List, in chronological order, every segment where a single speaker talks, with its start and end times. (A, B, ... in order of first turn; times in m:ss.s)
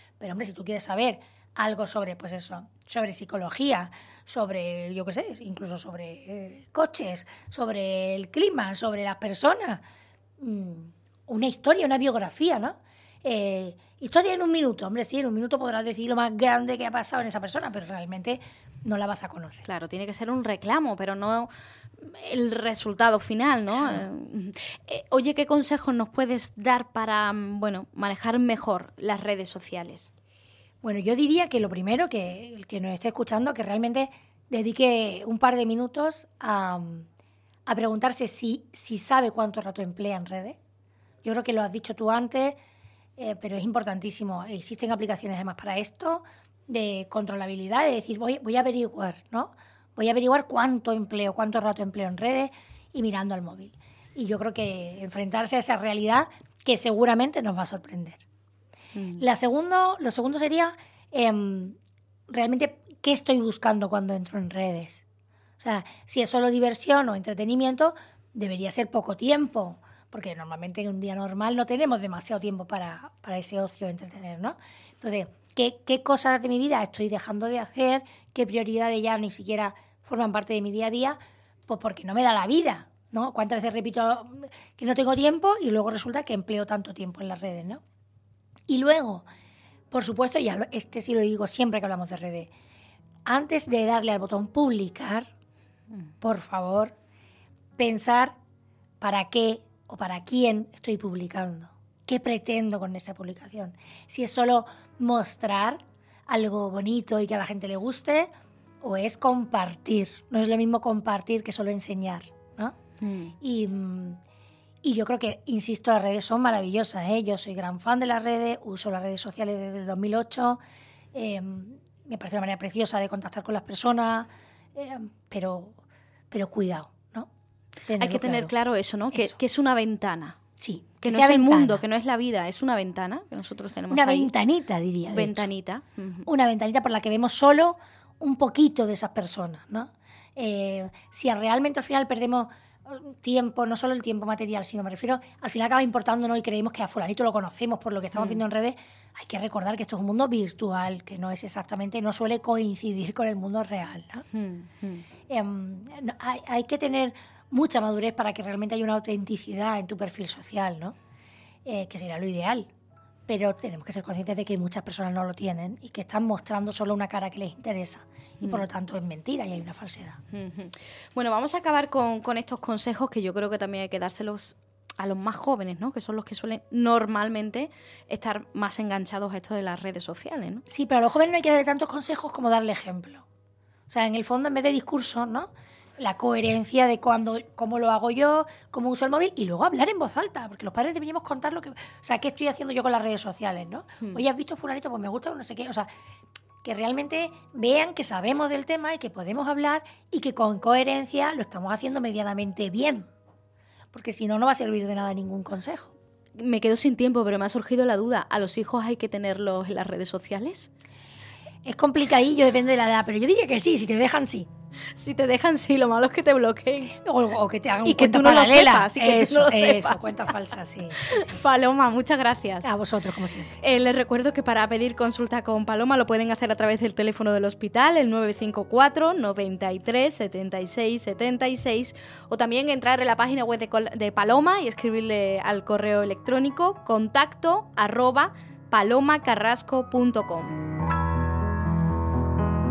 0:00.2-0:09.8 A
0:10.4-0:19.6 A
0:19.7-0:21.5 B
0:22.0-0:30.1 B
0:23.7-0:24.0 A
0:30.8-0:37.1 A
0:37.7-0:40.6 A
0:41.2-0:42.6 A
0:43.2-0:58.2 A
0:59.0-0:59.2 B
0:59.2-1:01.8 A
1:02.3-1:05.0 A
1:05.6-1:27.8 A
1:28.7-1:29.3 A
1:29.9-1:32.5 A
1:33.3-1:35.3 A
1:36.2-1:37.0 A
1:37.8-1:38.4 A
1:39.0-1:48.3 A
1:48.8-1:52.8 A
1:53.0-1:53.3 B
1:53.4-1:54.2 A
1:54.8-2:00.6 A
2:01.1-2:05.8 A
2:06.3-2:07.3 A
2:07.9-2:08.5 A
2:08.0-2:10.4 B
2:09.1-2:09.4 A
2:10.6-2:11.8 A
2:11.0-2:14.3 B
2:13.9-2:15.5 A
2:15.1-2:16.3 B
2:16.3-2:34.2 A
2:28.2-2:28.4 B
2:34.3-2:35.0 B
2:35.3-2:41.0 A
2:41.6-2:42.7 A
2:43.3-2:50.2 A
2:50.3-3:00.6 B
3:00.7-3:03.2 A
3:03.9-3:15.9 A
3:16.6-3:23.1 A
3:23.9-3:25.9 A
3:26.4-3:30.7 B
3:31.6-3:34.5 A
3:35.0-3:37.0 B
3:37.0-3:41.3 A
3:37.8-3:40.3 B
3:41.0-3:42.7 B
3:42.6-3:43.6 A
3:43.6-4:00.6 B